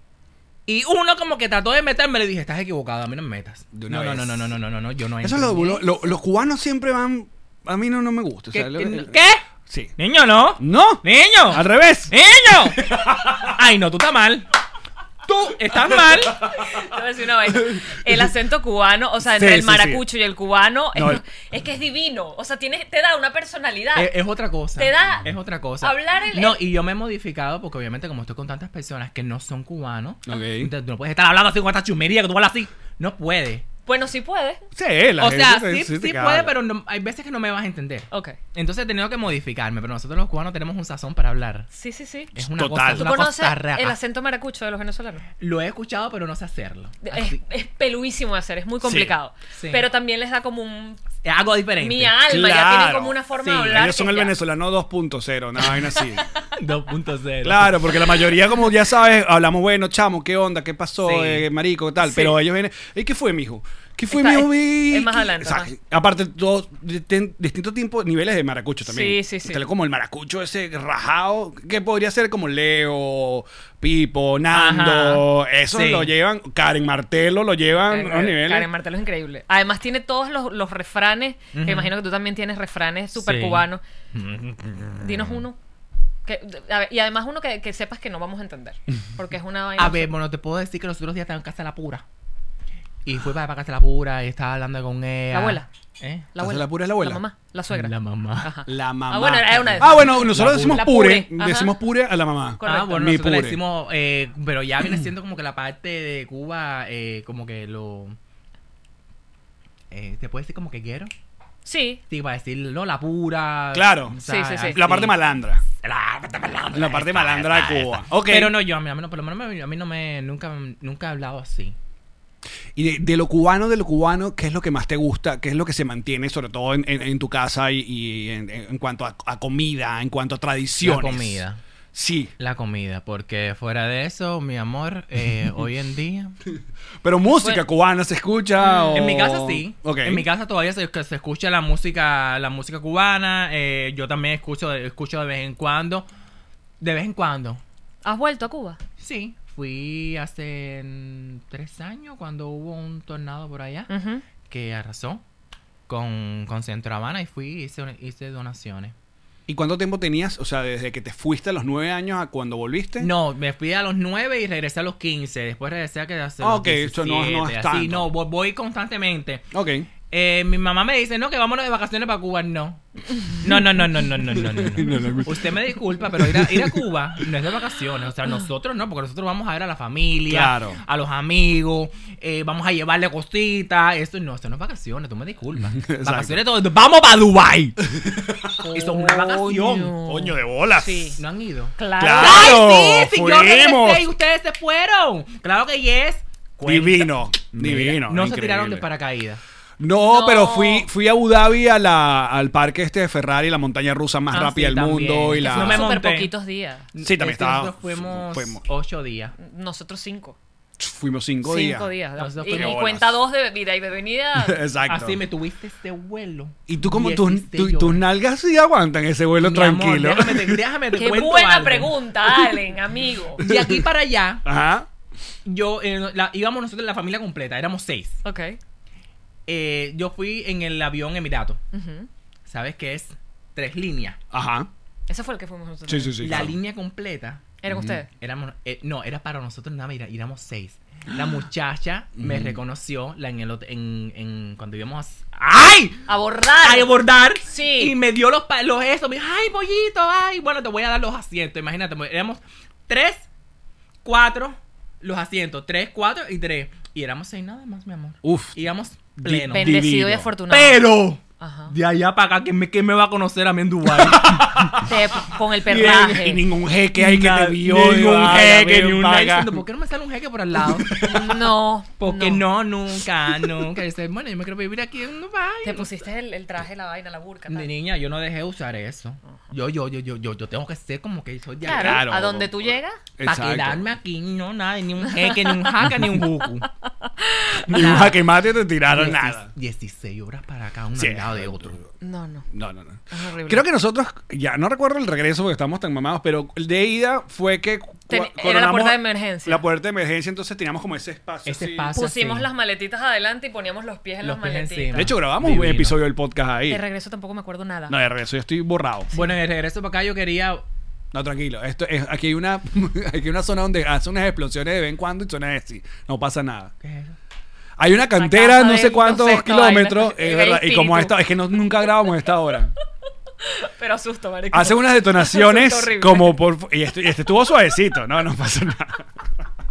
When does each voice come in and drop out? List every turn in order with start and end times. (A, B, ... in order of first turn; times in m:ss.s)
0:00.7-0:05.8 A
0:03.7-0:04.5 B
0:05.2-0:09.1 B
0:08.5-0:09.4 A
0:09.7-0:09.9 B
0:10.0-0:12.8 A
0:10.6-0:12.1 B
0:12.9-0:13.5 B
0:13.4-0:14.5 A
0:15.3-0:16.4 A
0:16.4-0:24.1 C
0:19.3-0:20.0 B
0:20.9-0:21.2 B
0:24.0-0:33.7 A
0:24.8-0:25.3 C
0:25.8-0:26.6 C
0:30.3-0:30.7 B
0:33.9-0:34.6 C
0:34.7-0:36.5 B
0:35.2-0:41.7 A
0:38.1-0:38.4 C
0:41.7-0:42.3 C
0:42.4-0:44.0 A
0:42.5-0:43.3 B
0:42.9-0:45.2 C
0:45.4-0:47.4 A
0:47.0-0:51.0 C
0:48.8-0:49.2 B
0:49.6-0:49.8 A
0:51.2-0:52.2 A
0:51.8-0:54.3 C
0:52.2-0:53.2 B
0:53.4-0:53.8 A
0:53.7-0:56.3 B
0:56.6-0:57.9 A
0:57.4-1:18.7 B
1:01.0-1:01.4 A
1:02.0-1:02.4 C
1:04.1-1:05.7 C
1:08.8-1:09.6 C
1:14.5-1:16.1 A
1:17.9-1:23.8 C
1:21.5-1:21.9 A
1:23.1-1:25.4 A
1:25.0-1:25.6 C
1:26.3-1:30.1 C
1:29.8-1:32.0 A
1:33.0-1:36.3 A
1:35.3-1:35.7 C
1:36.3-1:41.7 C
1:36.4-1:37.2 B
1:37.7-1:38.5 A
1:38.7-1:43.6 B
1:39.8-1:40.9 A
1:42.6-1:43.0 C
1:42.6-1:48.2 A
1:49.9-1:51.1 A
1:51.6-1:52.0 C
1:52.1-1:55.2 A
1:53.7-1:55.6 B
1:54.3-1:54.8 C
1:55.8-2:01.8 A
1:56.7-1:58.6 B
2:02.8-2:11.4 B
2:10.8-2:11.6 A
2:11.9-2:12.3 B
2:12.4-2:16.4 A
2:17.0-2:20.3 B
2:18.6-2:19.1 C
2:18.9-2:26.1 A
2:26.8-2:27.6 A
2:28.0-2:28.8 C
2:29.0-2:33.9 A
2:33.9-2:34.2 C
2:34.5-2:35.2 A
2:35.9-2:39.0 A
2:39.5-2:43.1 B
2:43.0-2:49.5 A
2:46.4-2:48.1 B
2:49.5-2:49.9 B
2:50.1-2:52.8 A
2:53.4-3:07.8 A
2:54.5-2:56.9 B
2:54.9-2:55.2 C
3:00.3-3:00.8 B
3:05.7-3:06.5 B
3:07.8-3:08.6 B
3:08.6-3:11.2 C
3:08.7-3:10.0 A
3:10.0-3:11.2 B
3:11.2-3:19.4 A
3:11.8-3:12.7 C
3:12.0-3:14.1 B
3:16.6-3:18.9 B
3:19.8-3:25.9 B
3:20.0-3:20.9 C
3:24.3-3:26.3 A
3:25.4-3:26.9 C
3:26.9-3:29.4 A
3:27.0-3:28.6 B
3:29.4-3:30.4 C
3:30.8-3:31.9 B
3:31.4-3:34.6 C
3:32.2-3:32.8 A
3:32.5-3:33.2 B
3:34.4-3:35.2 B
3:34.9-3:38.0 A
3:36.7-3:40.6 B
3:39.4-3:41.9 A
3:40.9-3:43.4 C
3:43.4-3:44.4 A
3:43.4-3:43.8 B
3:44.4-3:44.9 B
3:45.4-3:48.2 A
3:48.2-3:48.6 C
3:49.5-3:51.6 A
3:51.7-3:52.1 C
3:52.5-3:54.2 A
3:54.3-3:54.7 B
3:55.1-3:56.4 C
3:55.9-3:56.6 B
3:56.2-3:57.4 A
3:57.6-3:58.1 C
3:57.7-3:58.0 B
3:58.2-4:06.0 A
4:02.2-4:02.6 B
4:06.1-4:08.0 C
4:06.6-4:13.3 A
4:14.0-4:19.8 A
4:18.2-4:18.6 B
4:19.2-4:20.3 B
4:19.5-4:21.7 C
4:20.5-4:24.7 A
4:23.9-4:25.0 B
4:24.8-4:26.4 C
4:25.6-4:29.6 B
4:27.0-4:31.0 A
4:30.7-4:31.4 B
4:31.0-4:32.4 C
4:32.0-4:35.9 A
4:33.4-4:33.6 B
4:35.6-4:37.7 C
4:37.5-4:42.1 A
4:41.6-4:43.0 C
4:41.7-4:43.8 B
4:43.2-4:46.7 A
4:45.3-4:45.5 C
4:47.0-4:48.1 C
4:47.7-4:49.5 B
4:48.9-4:51.8 A
4:51.0-4:51.9 B
4:52.0-4:52.5 C
4:52.5-5:01.9 B
4:53.1-4:53.6 C
4:58.1-4:59.6 C
5:01.5-5:02.5 A
5:02.0-5:05.1 C
5:04.2-5:06.0 A
5:04.9-5:06.8 B
5:06.7-5:08.0 C
5:07.9-5:09.1 B
5:09.1-5:10.6 A
5:11.1-5:16.7 B
5:16.8-5:17.2 A
5:17.8-5:22.7 B
5:18.1-5:21.2 C
5:23.4-5:26.4 C
5:24.5-5:29.1 B